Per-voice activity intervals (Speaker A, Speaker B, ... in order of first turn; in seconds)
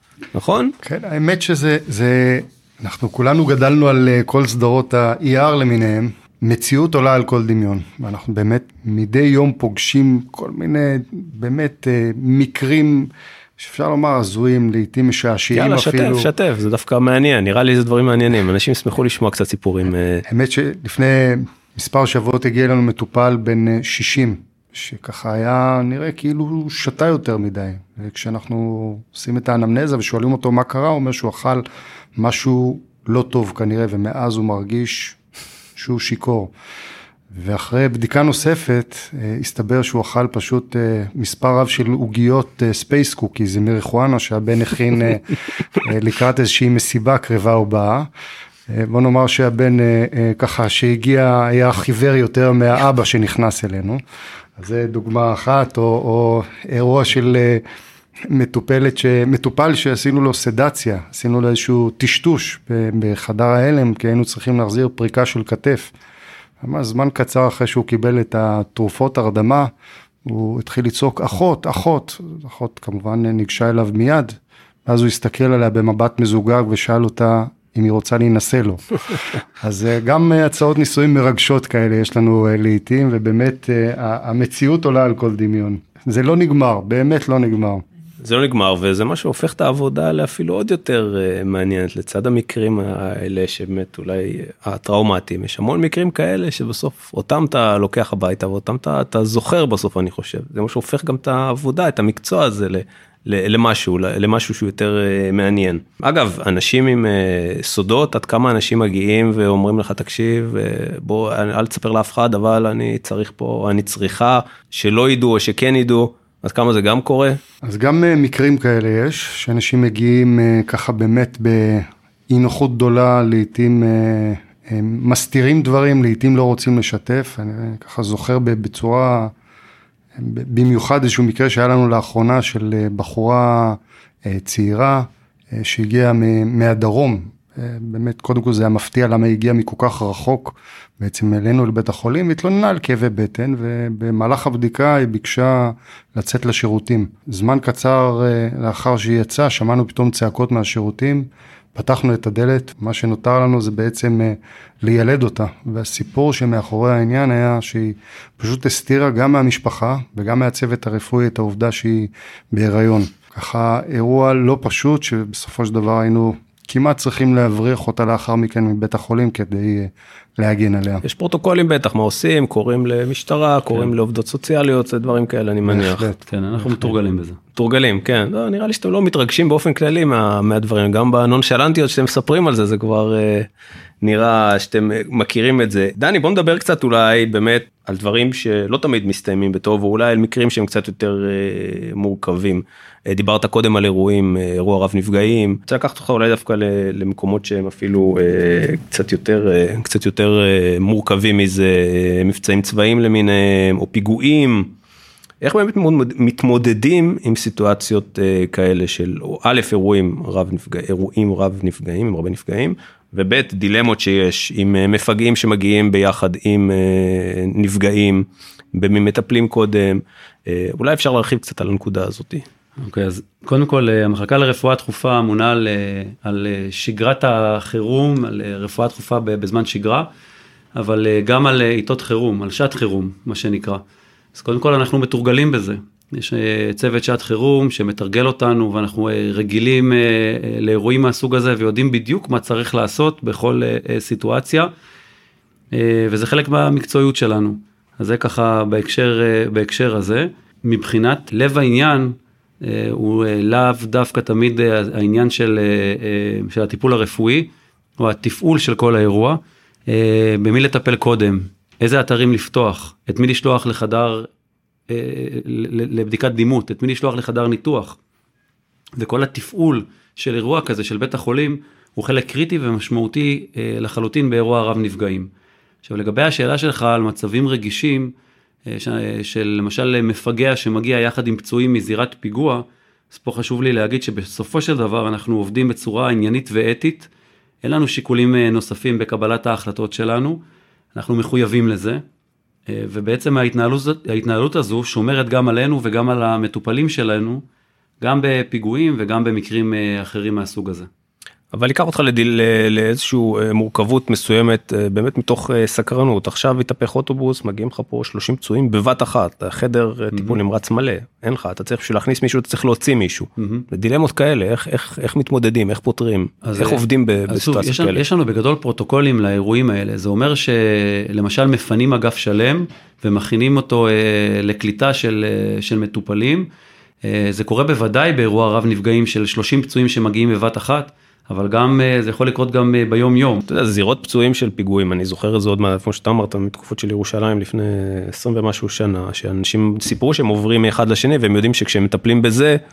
Speaker A: 0.3-0.7, 15.5-20.2, 88.2-117.4, 171.0-176.1, 177.5-183.5, 184.0-204.7, 205.4-222.4, 301.5-318.0, 333.5-342.6
Speaker B: 0.8-16.3, 20.2-31.6, 32.1-35.2, 35.8-36.5, 37.3-48.1, 48.7-54.0, 54.6-57.6, 58.3-65.9, 66.6-69.7, 70.2-74.3, 74.8-78.8, 79.6-87.8, 117.6-129.3, 130.2-171.0, 175.7-176.9
Speaker C: 176.2-177.4, 222.8-230.1, 230.7-233.8, 234.3-244.7, 245.7-264.3, 264.9-268.0, 269.0-275.3, 275.8-278.1, 278.7-287.1, 287.6-290.4, 290.9-292.0, 292.7-297.4, 298.0-300.9, 310.1-310.4, 313.4-313.6, 316.4-326.5, 327.0-333.4